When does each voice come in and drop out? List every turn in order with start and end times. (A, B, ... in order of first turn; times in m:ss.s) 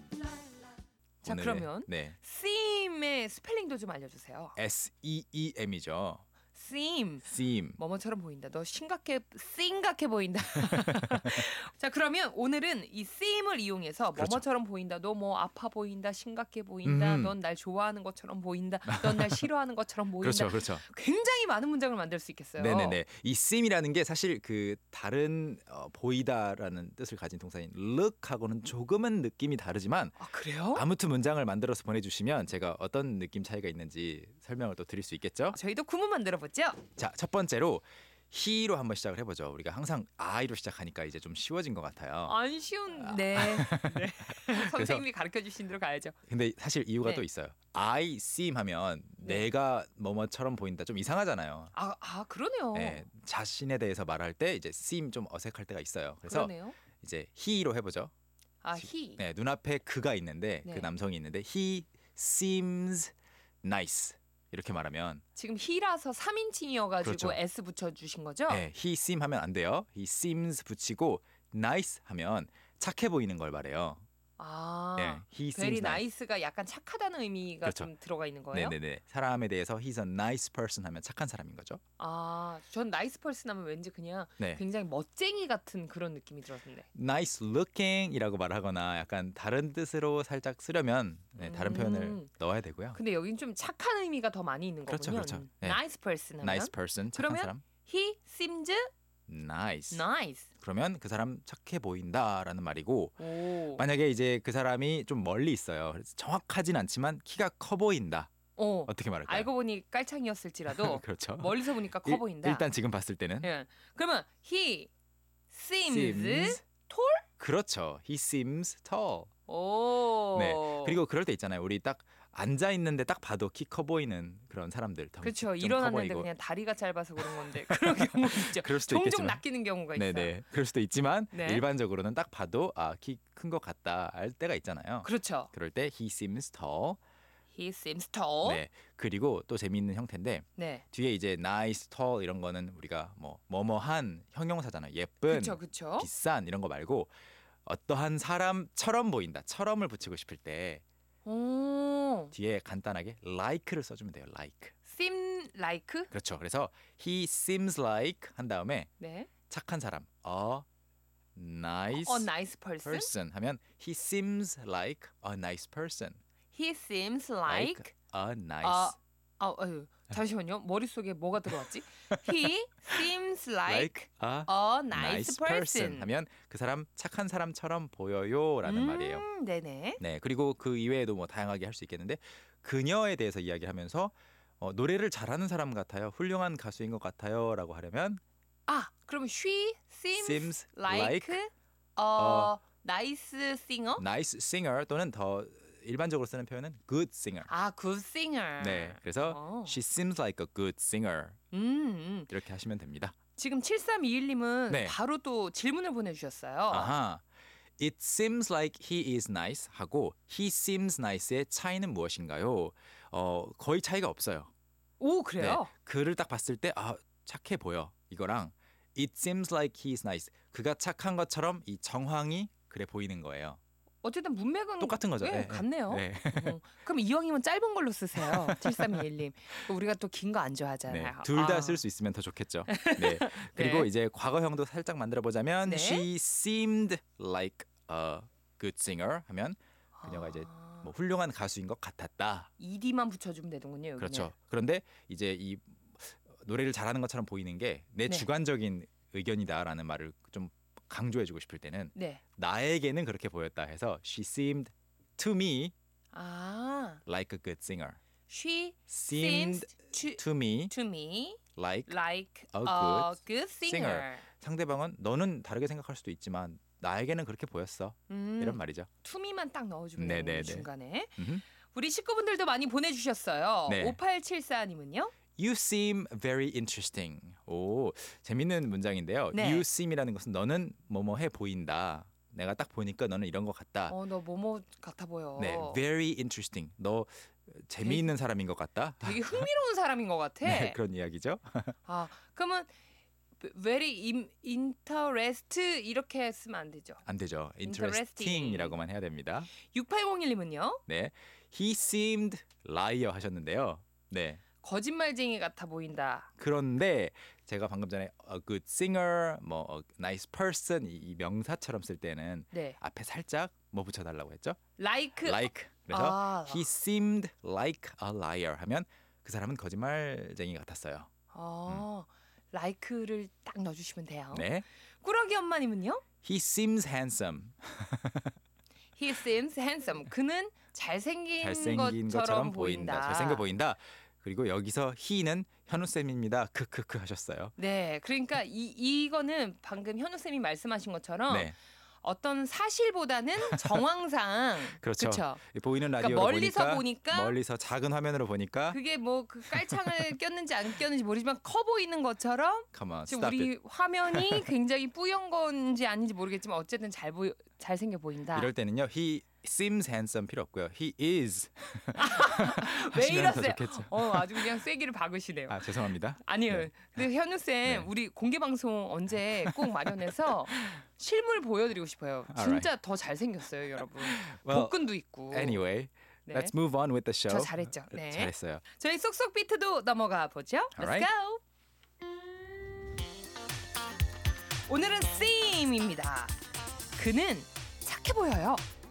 0:01.2-0:02.2 A
0:01.2-0:04.6 B
0:04.6-0:06.2 A
0:06.5-0:23.0 B
0:07.2-0:07.8 A
0:10.7-0:11.0 A
0:14.1-0:14.4 A
0:16.8-0:17.4 A
0:18.9-0:19.5 A
0:20.2-0:20.8 A
0:22.6-0:30.2 A
0:30.2-0:30.8 B
0:30.7-0:35.6 A
0:35.5-0:36.8 B
0:37.0-0:42.4 A
0:42.2-0:46.2 B
0:42.9-0:45.0 A
0:46.3-0:51.7 A
0:51.7-0:53.0 B
0:52.7-0:58.1 A
0:56.2-0:56.8 B
0:58.6-0:59.2 B
0:58.8-1:05.2 A
1:00.6-1:00.9 B
1:05.3-1:08.6 B
1:07.0-1:07.4 A
1:08.5-1:14.0 A
1:14.4-1:18.8 B
1:15.0-1:16.0 A
1:17.6-1:17.9 A
1:18.5-1:21.8 A
1:22.0-1:26.8 B
1:26.9-1:33.0 A
1:31.4-1:32.3 B
1:32.9-1:38.9 B
1:34.9-1:35.8 A
1:36.4-1:37.6 A
1:39.3-1:40.1 A
1:39.9-1:40.5 B
1:40.6-1:48.3 A
1:43.2-1:43.8 B
1:48.6-1:52.6 B
1:48.9-1:49.5 A
1:50.7-1:53.5 A
1:53.4-1:54.9 B
1:55.5-1:57.3 B
1:55.8-1:56.6 A
1:57.4-1:59.3 A
1:59.5-2:01.0 B
2:00.3-2:06.3 A
2:05.2-2:10.3 B
2:07.2-2:09.4 A
2:09.9-2:17.0 A
2:11.3-2:11.6 B
2:15.0-2:15.5 B
2:17.5-2:18.6 B
2:18.4-2:27.1 A
2:20.6-2:20.8 B
2:25.3-2:26.1 B
2:27.6-2:30.8 A
2:31.2-2:32.3 B
2:32.3-2:34.7 A
2:34.9-2:36.1 B
2:36.1-2:38.9 A
2:39.0-2:39.3 B
2:39.5-2:40.6 A
2:41.3-2:42.3 A
2:41.9-2:43.1 B
2:42.8-2:46.2 A
2:46.5-2:47.9 B
2:47.5-2:49.0 A
2:48.6-2:56.1 B
2:51.6-2:52.3 A
2:53.7-2:59.2 A
2:58.6-3:00.0 B
3:00.0-3:08.2 A
3:08.7-3:14.0 B
3:10.1-3:11.4 A
3:12.2-3:12.5 A
3:14.0-3:17.5 A
3:17.5-3:19.8 B
3:18.6-3:21.4 A
3:21.5-3:22.3 B
3:22.3-3:23.1 A
3:23.4-3:26.9 B
3:24.7-3:25.0 A
3:26.7-3:27.2 A
3:27.8-3:34.5 A
3:35.0-3:35.7 B
3:35.4-3:43.6 A
3:44.0-3:51.8 B
3:44.8-3:46.6 A
3:48.2-3:49.0 A
3:50.9-4:02.5 A
3:52.7-3:53.9 B
3:55.6-3:56.0 B
4:00.0-4:00.9 B
4:02.6-4:04.3 B
4:04.0-4:15.7 A
4:11.9-4:12.2 B
4:16.1-4:17.0 B
4:17.1-4:18.0 A
4:18.3-4:24.2 B
4:18.9-4:20.7 A
4:21.6-4:22.0 A
4:22.5-4:28.9 A
4:28.1-4:31.1 B
4:30.0-4:31.4 A
4:31.7-4:35.1 B
4:33.7-4:34.0 A
4:35.4-4:44.0 A
4:39.3-4:39.6 B
4:43.9-4:45.8 B
4:45.4-4:49.5 A
4:47.8-4:48.1 B
4:49.0-4:50.8 B
4:50.4-4:51.7 A
4:51.8-4:52.7 B
4:53.4-4:57.0 B
4:57.0-4:59.5 A
4:57.6-4:58.8 B
4:59.6-5:00.8 B
5:00.9-5:04.4 A
5:04.6-5:06.3 B
5:06.4-5:14.6 A
5:12.5-5:12.8 B
5:14.8-5:16.7 B
5:15.2-5:21.1 A
5:21.3-5:24.5 B
5:24.3-5:24.6 A
5:25.0-5:26.0 B
5:26.2-5:28.4 A
5:29.0-5:33.4 B
5:31.4-5:37.5 A
5:37.6-5:41.5 B
5:41.3-5:41.5 A
5:42.0-5:45.4 B
5:43.4-5:43.8 A
5:44.8-5:48.8 A
5:46.0-5:47.4 B
5:48.7-5:58.5 B
5:49.5-5:50.0 A
5:52.7-5:53.5 A
5:54.1-5:54.4 A
5:58.3-6:04.6 A
6:01.9-6:15.6 B
6:05.5-6:07.0 A
6:07.6-6:07.9 A
6:12.3-6:12.7 A
6:13.8-6:18.6 A
6:16.3-6:16.5 B
6:17.3-6:21.4 B
6:20.8-6:21.1 A
6:24.7-6:26.4 B
6:27.0-6:28.6 B